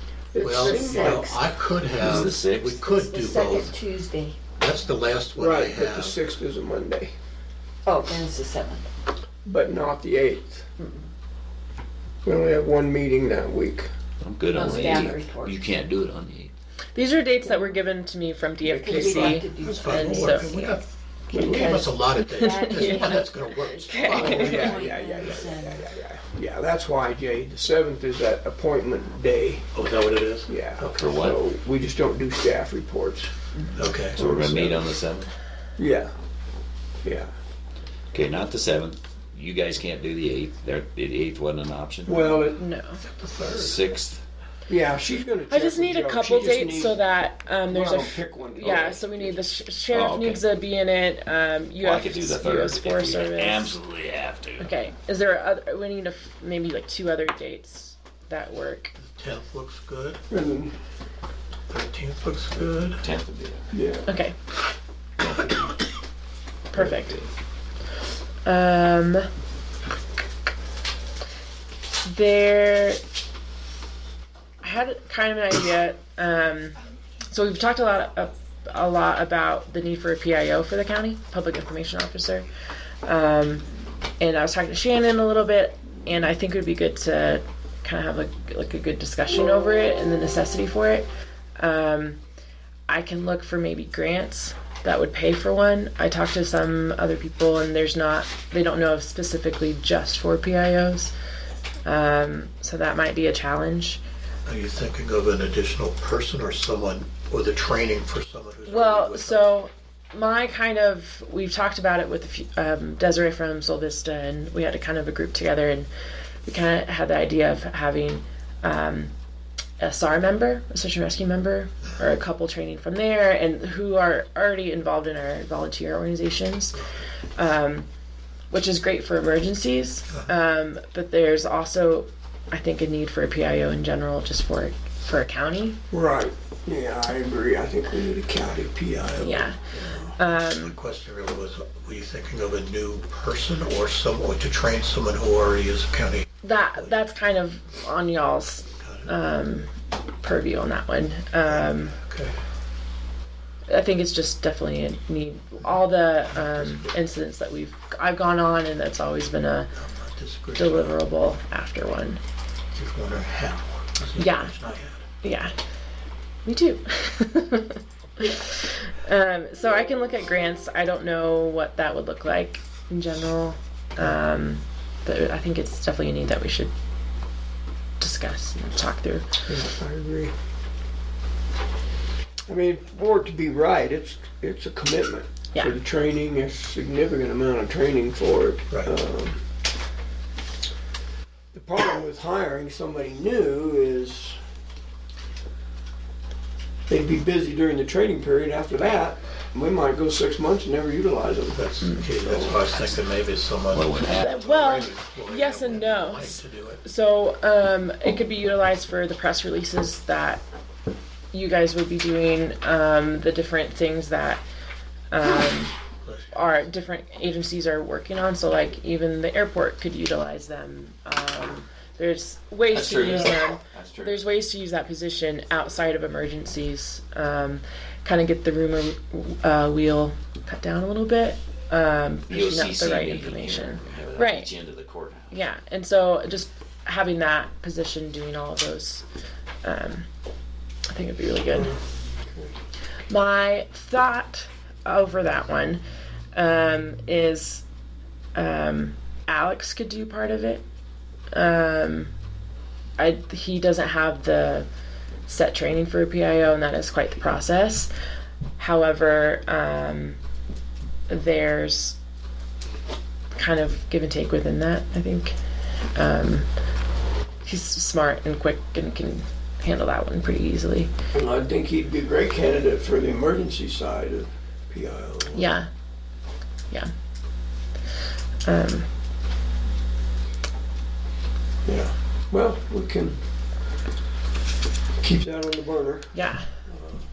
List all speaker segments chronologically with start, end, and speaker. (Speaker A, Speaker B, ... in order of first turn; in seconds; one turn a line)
Speaker A: 0.3-1.4
Speaker B: 0.4-3.8
Speaker C: 0.5-1.4
Speaker D: 2.0-2.8
Speaker C: 2.8-4.4
Speaker B: 4.6-6.3
Speaker A: 5.3-7.1
Speaker C: 7.8-8.9
Speaker A: 9.4-10.7
Speaker A: 12.2-13.9
Speaker D: 14.2-16.5
Speaker C: 14.5-15.7
Speaker E: 14.6-15.1
Speaker E: 16.9-20.8
Speaker C: 17.4-17.7
Speaker A: 18.6-19.5
Speaker C: 18.8-20.8
Speaker B: 19.3-24.9
Speaker A: 21.3-21.7
Speaker E: 21.4-23.2
Speaker C: 21.6-25.9
Speaker E: 23.9-24.8
Speaker A: 24.2-29.7
Speaker B: 29.7-31.0
Speaker A: 30.5-33.3
Speaker D: 31.0-31.4
Speaker B: 33.7-34.2
Speaker A: 34.1-35.0
Speaker D: 34.1-35.3
Speaker A: 35.8-36.1
Speaker A: 37.0-37.3
Speaker D: 38.1-42.3
Speaker A: 42.0-42.6
Speaker E: 42.5-43.0
Speaker B: 43.0-43.9
Speaker D: 43.5-44.2
Speaker A: 44.7-47.0
Speaker E: 45.5-53.8
Speaker A: 47.7-49.5
Speaker D: 49.9-50.5
Speaker D: 51.8-54.7
Speaker E: 54.6-58.9
Speaker B: 59.0-60.2
Speaker A: 60.3-60.7
Speaker B: 61.7-63.0
Speaker D: 62.9-63.7
Speaker A: 63.7-64.1
Speaker E: 64.0-64.3
Speaker D: 65.2-65.5
Speaker E: 66.7-67.2
Speaker D: 66.7-67.3
Speaker E: 68.4-69.2
Speaker E: 72.0-73.0
Speaker E: 74.6-76.8
Speaker E: 77.3-82.5
Speaker E: 83.0-83.6
Speaker E: 84.2-91.0
Speaker E: 91.6-92.2
Speaker E: 92.9-101.1
Speaker E: 101.8-104.0
Speaker B: 104.5-109.5
Speaker E: 108.7-115.9
Speaker E: 116.4-119.1
Speaker E: 119.8-126.8
Speaker E: 127.3-127.9
Speaker E: 128.5-135.8
Speaker A: 135.9-140.1
Speaker E: 139.2-139.6
Speaker B: 139.7-146.9
Speaker E: 140.2-140.8
Speaker E: 146.4-151.9
Speaker B: 148.8-149.1
Speaker B: 151.4-152.4
Speaker E: 153.7-159.7
Speaker B: 156.3-156.9
Speaker B: 159.7-161.0
Speaker E: 160.5-162.2
Speaker B: 162.7-165.0
Speaker E: 164.2-164.6
Speaker E: 165.2-165.5
Speaker E: 166.4-176.7
Speaker E: 178.0-179.3
Speaker A: 179.5-180.3
Speaker A: 182.5-189.4
Speaker A: 191.5-194.4
Speaker A: 196.9-201.7
Speaker B: 201.5-206.8
Speaker A: 202.2-202.6
Speaker D: 203.7-204.4
Speaker E: 204.1-210.4
Speaker E: 211.3-214.4
Speaker E: 215.1-215.7
Speaker B: 216.0-216.7
Speaker E: 216.3-234.5
Speaker D: 222.7-224.3
Speaker D: 232.3-235.4
Speaker E: 235.3-239.1
Speaker E: 239.6-240.1
Speaker E: 240.9-241.7
Speaker A: 241.6-242.5
Speaker E: 243.1-245.8
Speaker E: 246.3-247.6
Speaker E: 248.3-250.6
Speaker E: 251.3-252.1
Speaker E: 253.0-254.7
Speaker E: 255.2-257.9
Speaker E: 258.6-260.2
Speaker E: 261.1-262.0
Speaker E: 263.3-265.4
Speaker E: 265.9-266.5
Speaker E: 267.4-270.9
Speaker A: 271.1-275.5
Speaker E: 275.3-275.7
Speaker E: 278.4-278.9
Speaker A: 281.6-283.2
Speaker A: 285.0-287.0
Speaker E: 286.1-286.6